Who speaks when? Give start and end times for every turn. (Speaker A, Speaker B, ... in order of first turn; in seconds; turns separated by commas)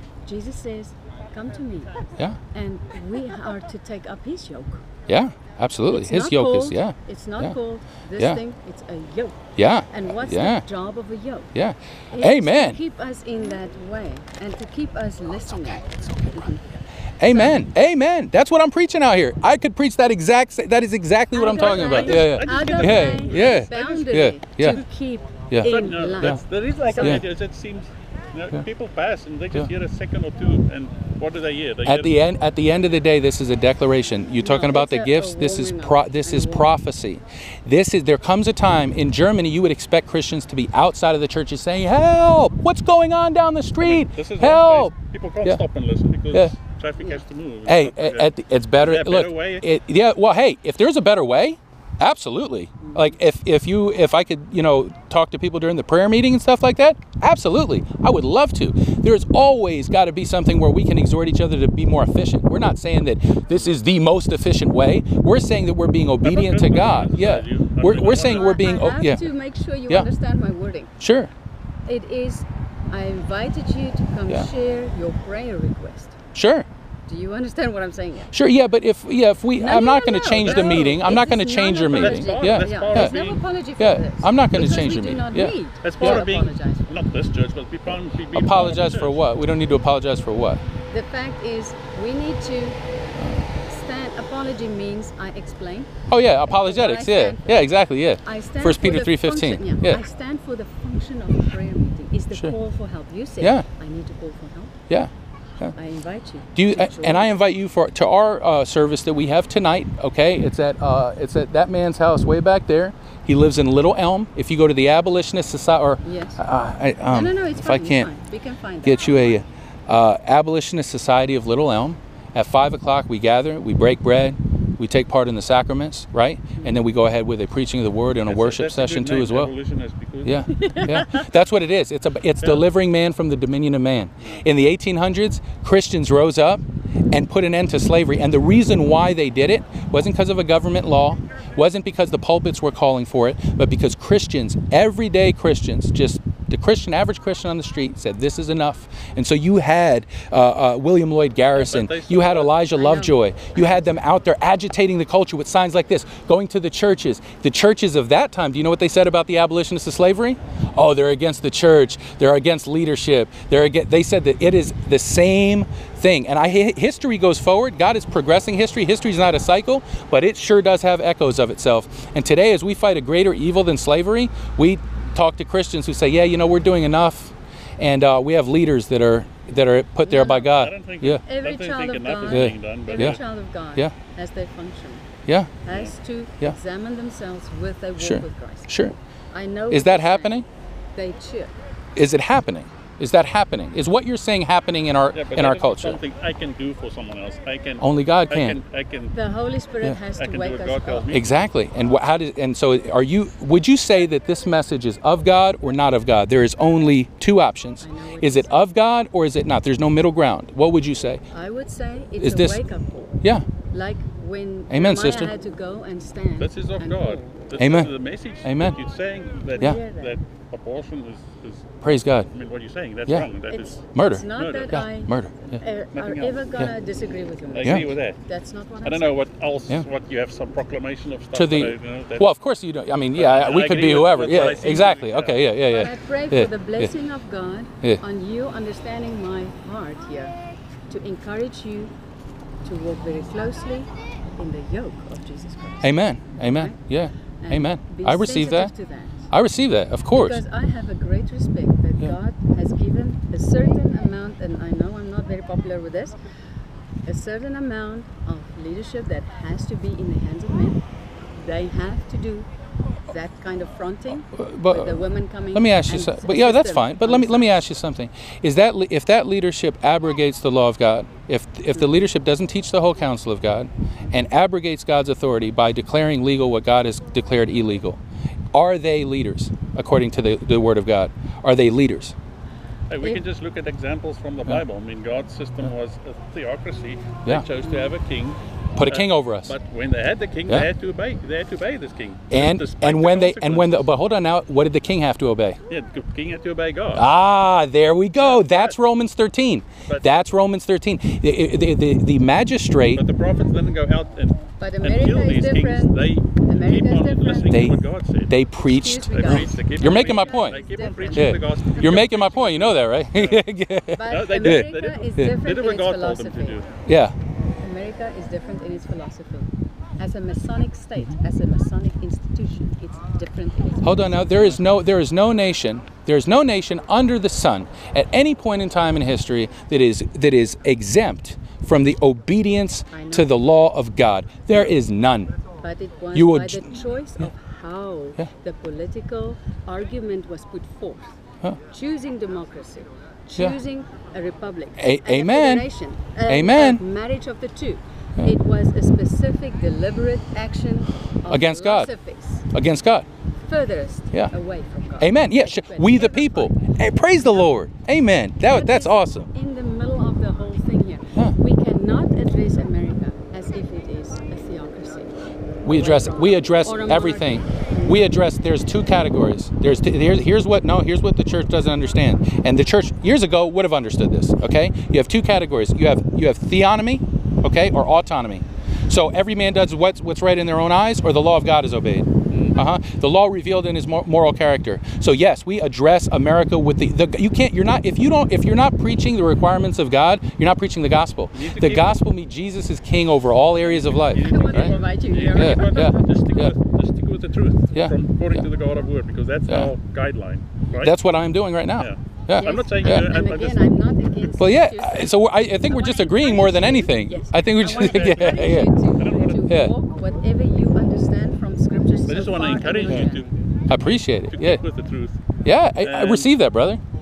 Speaker A: 0.3-4.9, Speaker B: 5.1-7.5, Speaker A: 5.9-11.5, Speaker B: 9.6-10.7, Speaker B: 11.6-12.8, Speaker A: 12.1-16.6, Speaker B: 17.2-24.8, Speaker A: 17.3-17.6, Speaker A: 21.3-27.3, Speaker C: 21.6-24.1, Speaker B: 25.5-26.4, Speaker C: 25.6-32.2, Speaker B: 31.9-45.6, Speaker A: 34.4-36.7, Speaker C: 43.8-49.6, Speaker B: 47.7-69.2, Speaker C: 66.2-68.6, Speaker A: 68.1-71.0, Speaker B: 71.0-71.3, Speaker A: 71.9-76.2, Speaker B: 76.3-76.7, Speaker A: 77.1-78.3, Speaker B: 78.3-83.2, Speaker A: 79.6-87.0, Speaker C: 80.4-81.2, Speaker C: 81.8-83.4, Speaker B: 83.8-86.3, Speaker C: 85.8-89.2, Speaker B: 88.3-90.6, Speaker A: 90.9-92.8, Speaker B: 93.2-93.5, Speaker A: 93.7-97.7, Speaker B: 96.1-100.0, Speaker A: 98.2-104.8, Speaker B: 103.4-103.7, Speaker B: 104.9-105.7, Speaker A: 105.8-107.3, Speaker B: 106.5-118.1, Speaker A: 116.0-116.4, Speaker A: 117.1-119.4, Speaker B: 118.8-129.5, Speaker C: 128.3-130.9, Speaker B: 130.2-181.2, Speaker A: 130.6-131.2, Speaker C: 151.5-152.7, Speaker A: 152.8-153.8, Speaker A: 180.1-180.6, Speaker C: 180.5-183.2, Speaker A: 181.2-185.1, Speaker B: 182.3-183.2, Speaker A: 185.6-188.7, Speaker B: 188.0-188.9, Speaker A: 189.3-190.4, Speaker B: 189.7-190.4, Speaker A: 191.0-191.5, Speaker B: 192.0-196.0, Speaker C: 195.1-199.1, Speaker B: 197.8-198.6, Speaker A: 199.2-201.1, Speaker C: 200.2-201.3, Speaker B: 201.1-211.2, Speaker A: 207.8-208.7, Speaker A: 211.3-213.2, Speaker B: 212.2-212.7, Speaker A: 213.7-217.3, Speaker B: 214.7-215.3, Speaker C: 216.4-221.7, Speaker B: 217.6-218.8, Speaker A: 219.6-220.2, Speaker B: 221.8-222.3, Speaker C: 222.3-223.8, Speaker A: 223.5-229.2, Speaker B: 223.9-225.6, Speaker C: 224.3-224.8, Speaker C: 225.9-226.4, Speaker C: 227.5-228.2, Speaker C: 228.8-232.3, Speaker B: 231.3-236.9, Speaker C: 233.2-235.5, Speaker A: 235.6-240.4, Speaker A: 240.9-241.9, Speaker A: 242.6-246.8, Speaker B: 245.8-248.7, Speaker A: 247.4-249.3, Speaker B: 249.3-250.4, Speaker A: 250.1-256.2, Speaker A: 257.1-260.8, Speaker A: 261.4-262.5, Speaker A: 263.1-267.6, Speaker B: 264.3-278.0, Speaker B: 278.5-282.1, Speaker C: 282.9-293.9, Speaker A: 287.6-287.9, Speaker B: 288.8-289.5, Speaker B: 292.3-295.6, Speaker C: 295.7-297.1, Speaker B: 296.9-303.0, Speaker C: 298.2-298.8, Speaker C: 299.9-300.1, Speaker C: 302.9-308.4, Speaker A: 304.6-307.5, Speaker B: 307.5-310.6, Speaker A: 308.6-312.0, Speaker C: 309.1-313.4, Speaker B: 311.1-315.3, Speaker A: 313.9-316.6, Speaker C: 314.1-316.7, Speaker B: 316.9-317.1, Speaker A: 317.6-324.6, Speaker B: 323.8-335.3, Speaker A: 332.9-333.4, Speaker A: 335.6-341.1, Speaker B: 336.1-336.7, Speaker A: 341.7-352.5, Speaker B: 344.8-345.7, Speaker B: 346.3-346.8, Speaker B: 351.3-351.9, Speaker B: 352.5-353.1, Speaker A: 353.5-356.6, Speaker B: 355.0-359.3, Speaker A: 358.5-368.0, Speaker B: 365.6-394.8, Speaker C: 382.3-382.6, Speaker C: 391.3-392.0, Speaker C: 393.6-401.0, Speaker A: 394.1-396.2, Speaker B: 395.3-396.5, Speaker B: 397.7-398.4, Speaker B: 400.8-403.1, Speaker C: 401.8-403.8, Speaker A: 402.4-413.2, Speaker B: 404.4-408.7, Speaker C: 407.8-408.4, Speaker C: 409.0-409.5, Speaker B: 409.5-409.8, Speaker C: 412.1-413.3, Speaker B: 413.7-414.6, Speaker C: 414.2-415.3, Speaker B: 415.4-416.8, Speaker C: 415.8-416.3